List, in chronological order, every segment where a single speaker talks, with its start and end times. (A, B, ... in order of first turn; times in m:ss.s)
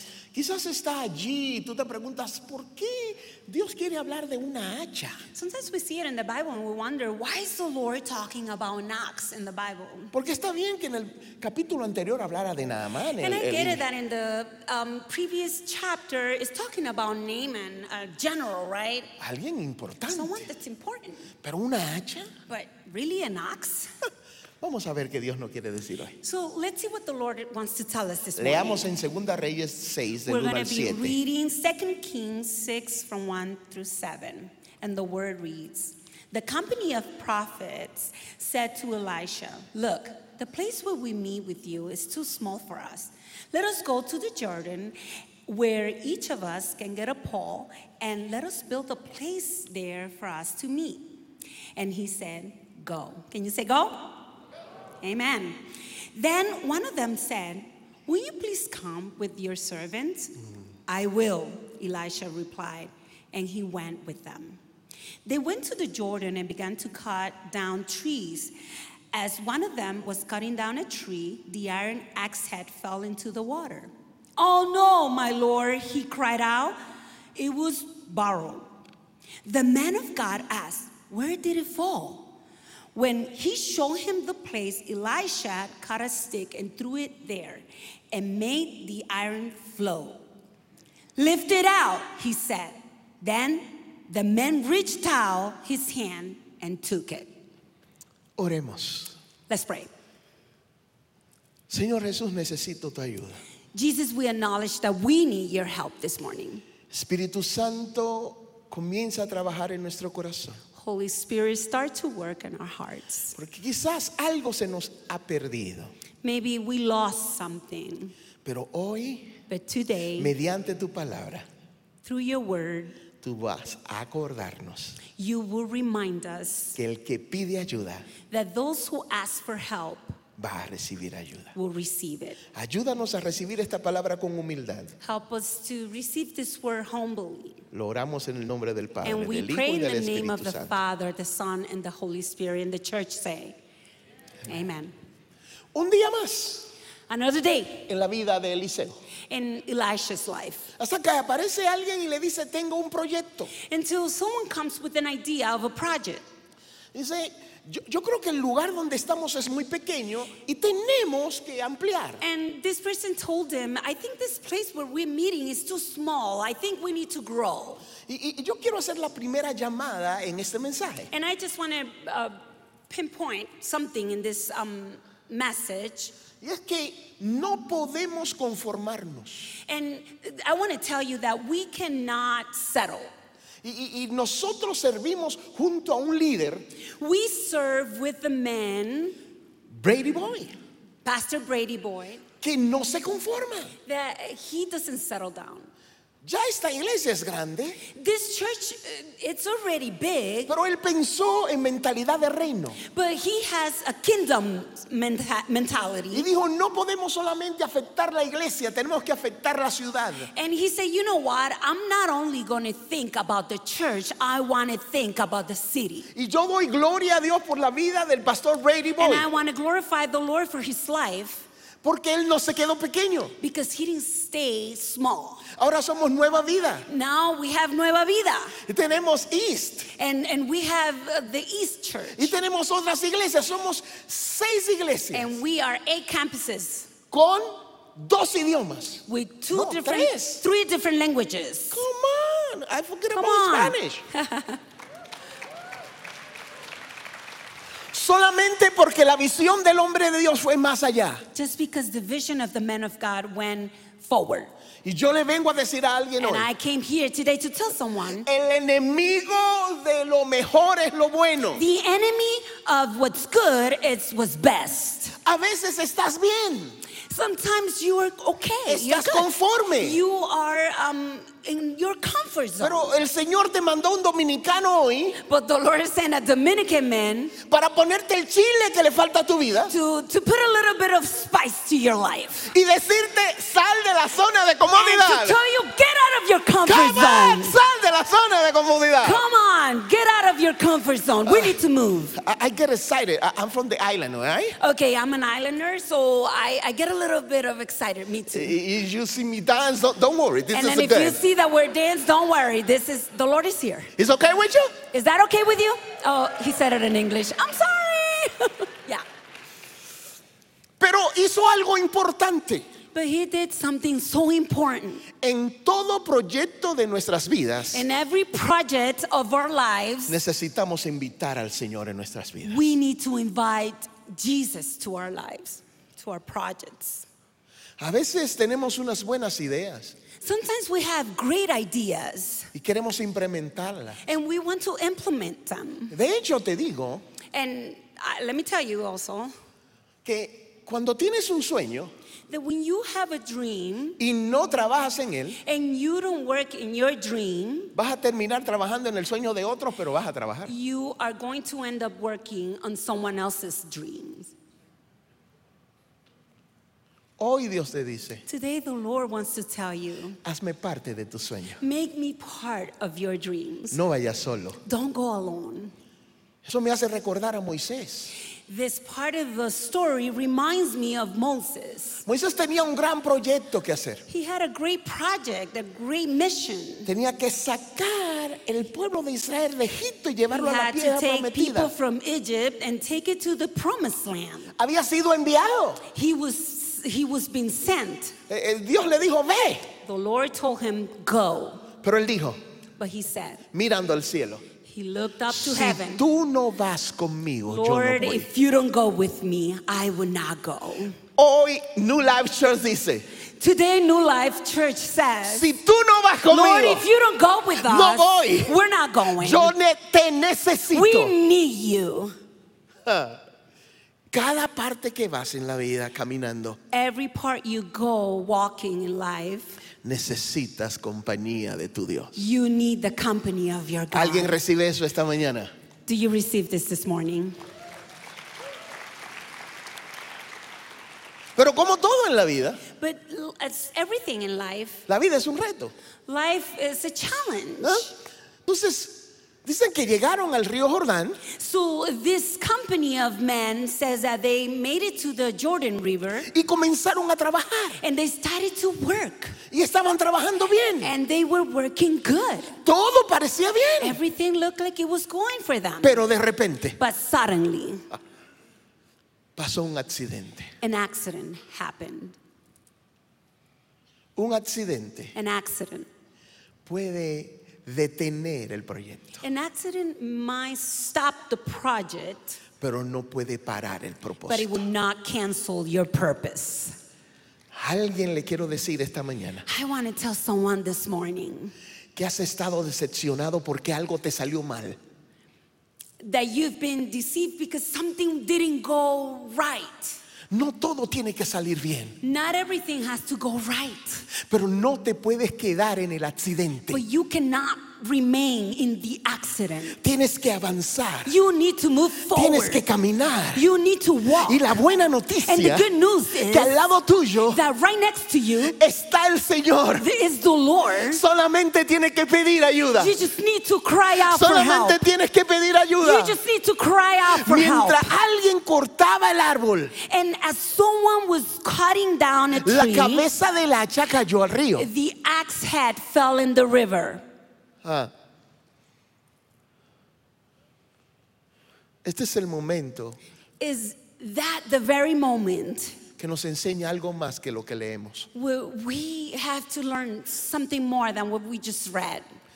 0:00.3-0:05.2 A
0:05.3-0:10.1 B
0:10.1-0:13.8 A
0:13.2-0:19.1 B
0:19.2-0:20.4 A
0:20.1-0:21.3 B
0:21.4-0:22.3 A
0:22.5-0:23.9 B
0:24.6-0:26.2 A
0:26.2-0:28.9 B
0:28.4-0:31.2 A
0:30.2-0:51.2 B
0:51.8-0:54.3 B
0:55.0-0:55.6 B
0:56.1-1:00.3 B
1:00.9-1:04.6 B
1:05.2-1:08.5 B
1:09.1-1:16.8 B
1:17.3-1:18.7 B
1:19.4-1:22.3 B
1:22.9-1:30.2 B
1:31.2-1:37.3 B
1:38.4-1:39.1 A
1:39.5-1:39.9 B
1:41.7-1:43.4 A
1:43.7-1:46.6 B
1:46.9-1:50.6 A
1:50.7-1:53.4 B
1:53.3-1:55.9 A
1:56.2-1:58.1 B
1:58.4-1:59.4 A
1:59.5-2:00.3 B
2:00.2-2:01.5 A
2:02.0-2:03.0 B
2:03.2-2:05.0 A
2:05.2-2:06.8 B
2:06.8-2:08.1 A
2:08.3-2:10.2 B
2:10.4-2:11.5 A
2:11.5-2:12.4 B
2:12.5-2:14.9 A
2:15.0-2:17.6 B
2:17.7-2:20.8 A
2:19.0-2:23.6 B
2:24.4-2:24.9 B
2:25.7-2:26.7 A
2:27.1-2:27.9 B
2:27.9-2:28.9 A
2:29.3-2:30.7 B
2:30.8-2:33.5 A
2:33.5-2:36.2 B
2:36.9-2:42.2 A
2:42.2-2:47.8 B
2:48.0-2:51.1 A
2:51.1-2:52.4 B
2:52.9-2:56.1 B
2:56.4-2:59.5 A
2:59.7-3:03.1 B
3:03.6-3:06.7 A
3:07.0-3:09.2 B
3:09.7-3:10.6 A
3:11.0-3:12.2 B
3:12.4-3:13.8 A
3:13.8-3:15.7 B
3:16.2-3:17.8 A
3:17.9-3:20.5 B
3:20.5-3:22.8 A
3:22.8-3:26.3 B
3:26.1-3:30.3 A
3:30.3-3:36.1 B
3:36.1-3:39.2 A
3:39.0-3:41.4 B
3:41.8-3:43.3 A
3:43.4-3:45.4 B
3:45.6-3:46.9 A
3:46.8-3:48.6 B
3:48.7-3:49.9 A
3:49.9-3:52.3 B
3:52.1-3:55.3 A
3:55.1-3:56.9 B
3:57.1-4:00.4 A
3:59.1-4:01.8 B
4:01.7-4:04.0 A
4:03.1-4:04.6 B
4:07.9-4:11.2 A
4:11.3-4:14.5 B
4:14.8-4:16.5 A
4:16.2-4:18.3 B
4:18.2-4:21.6 A
4:21.5-4:25.1 B
4:25.2-4:26.8 A
4:27.1-4:32.9 B
4:28.6-4:30.0 A
4:32.6-4:35.2 A
4:35.2-4:37.4 B
4:37.5-4:39.7 A
4:39.7-4:42.5 B
4:42.5-4:45.4 A
4:44.7-4:47.6 B
4:46.6-4:49.2 A
4:49.0-4:52.2 B
4:51.3-4:51.5 A
4:52.1-4:54.6 A
4:54.6-4:58.6 B
4:58.3-5:01.2 A
5:00.5-5:03.9 B
5:04.0-5:04.8 A
5:04.9-5:09.0 B
5:10.8-5:12.7 A
5:12.9-5:15.0 B
5:15.2-5:17.8 A
5:17.7-5:20.2 B
5:20.1-5:22.6 A
5:22.4-5:27.0 B
5:27.8-5:30.0 A
5:30.2-5:32.5 B
5:32.5-5:34.0 A
5:34.0-5:35.9 B
5:35.9-5:37.0 A
5:37.3-5:39.3 B
5:40.0-5:41.9 A
5:42.3-5:44.0 B
5:44.0-5:45.4 A
5:45.4-5:47.7 B
5:47.7-5:50.5 A
5:50.4-5:54.3 B
5:57.2-5:58.2 A
5:58.3-6:00.2 B
6:00.2-6:01.6 A
6:01.6-6:03.8 B
6:03.7-6:04.6 A
6:04.6-6:05.7 B
6:06.4-6:08.1 A
6:08.5-6:12.0 B
6:12.0-6:14.0 A
6:14.1-6:16.9 B
6:16.8-6:21.7 A
6:20.3-6:24.5 B
6:24.6-6:25.8 A
6:25.9-6:28.1 B
6:28.3-6:29.7 A
6:29.8-6:31.6 B
6:31.8-6:32.4 A
6:32.8-6:33.4 B
6:33.5-6:34.4 A
6:34.6-6:36.0 B
6:35.3-6:38.3 A
6:37.5-6:41.0 B
6:41.2-6:43.0 A
6:43.4-6:45.5 B
6:45.2-6:46.8 A
6:46.3-6:49.5 B
6:47.6-6:48.5 A
6:49.2-6:51.1 A
6:50.7-6:52.2 B
6:52.8-6:53.2 A
6:54.1-6:56.6 A
6:56.7-6:59.6 B
6:59.8-7:02.2 A
7:02.2-7:04.3 B
7:03.9-7:05.5 A
7:05.8-7:07.4 B
7:11.4-7:12.6 A
7:12.7-7:14.8 B
7:14.9-7:15.7 A
7:16.1-7:17.9 B
7:17.6-7:17.9 A
7:18.4-7:21.2 A
7:21.3-7:26.3 B
7:26.3-7:27.8 A
7:27.8-7:29.4 B
7:29.5-7:30.9 A
7:30.8-7:32.6 B
7:32.6-7:34.0 A
7:33.8-7:36.0 B
7:35.8-7:36.8 A
7:36.8-7:37.8 B
7:39.4-7:40.5 A
7:40.6-7:42.2 B
7:44.2-7:45.2 A
7:45.1-7:45.9 B
7:46.6-7:49.2 A
7:49.2-7:52.4 B
7:52.6-7:54.6 A
7:54.2-7:56.8 B
7:57.5-7:59.5 A
7:59.4-8:01.5 B
8:02.0-8:04.8 A
8:06.0-8:10.0 B
8:10.3-8:12.0 A
8:12.0-8:14.0 B
8:14.1-8:16.8 A
8:16.7-8:19.8 B
8:19.8-8:21.1 A
8:21.0-8:22.6 B
8:22.1-8:23.4 A
8:23.3-8:24.5 B
8:24.2-8:25.6 A
8:25.2-8:26.6 B
8:26.2-8:27.4 A
8:27.3-8:28.6 B
8:28.4-8:29.8 A
8:29.8-8:31.0 B
8:30.9-8:33.0 A
8:32.8-8:34.8 B
8:34.0-8:36.2 A
8:35.8-8:38.0 B
8:37.1-8:39.7 A
8:39.8-8:43.1 B
8:42.3-8:44.7 A
8:44.6-8:47.0 B
8:47.6-8:47.9 A
8:51.8-8:53.0 A
8:53.4-8:55.8 B
8:56.0-8:58.1 A
8:58.1-9:02.0 B